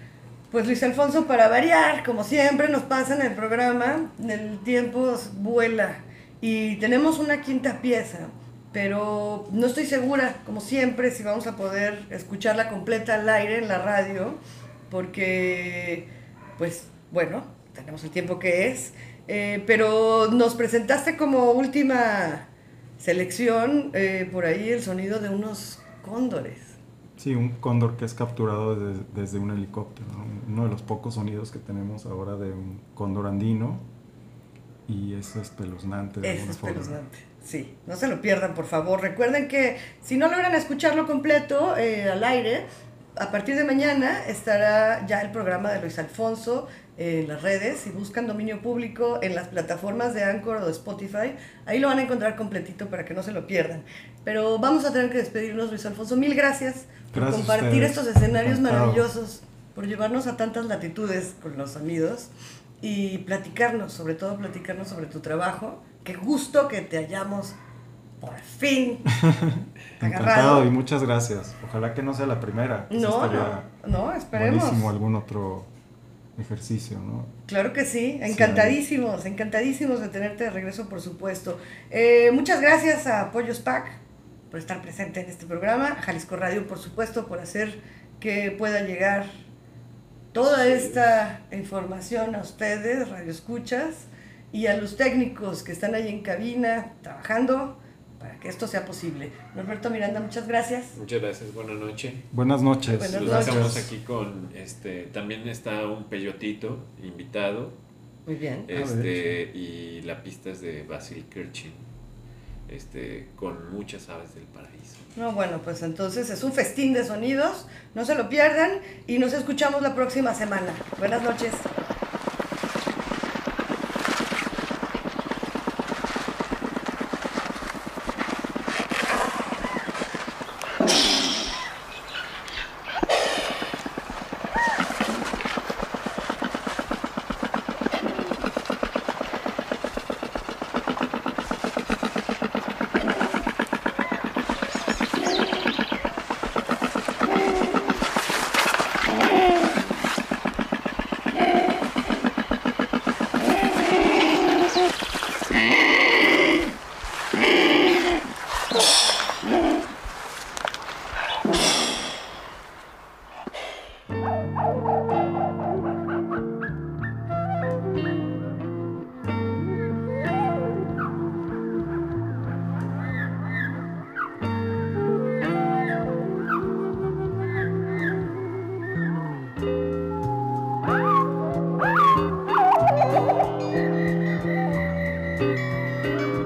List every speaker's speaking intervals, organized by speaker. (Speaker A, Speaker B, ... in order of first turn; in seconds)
Speaker A: 0.5-22.5, 23.0-26.8, 36.2-62.3, 62.8-67.6, 68.2-69.1, 70.0-70.7, 72.9-74.9, 77.5-89.4, 90.3-101.0, 103.0-103.8, 108.3-108.7, 115.2-121.7
Speaker B: 27.2-33.9, 34.9-37.0, 57.1-59.1, 69.1-73.7, 74.3-75.7, 76.4-77.3, 78.3-78.8, 102.3-103.9, 108.7-109.3
Speaker C: 90.3-91.1, 101.0-102.3, 103.1-107.8, 108.7-111.9, 112.7-115.1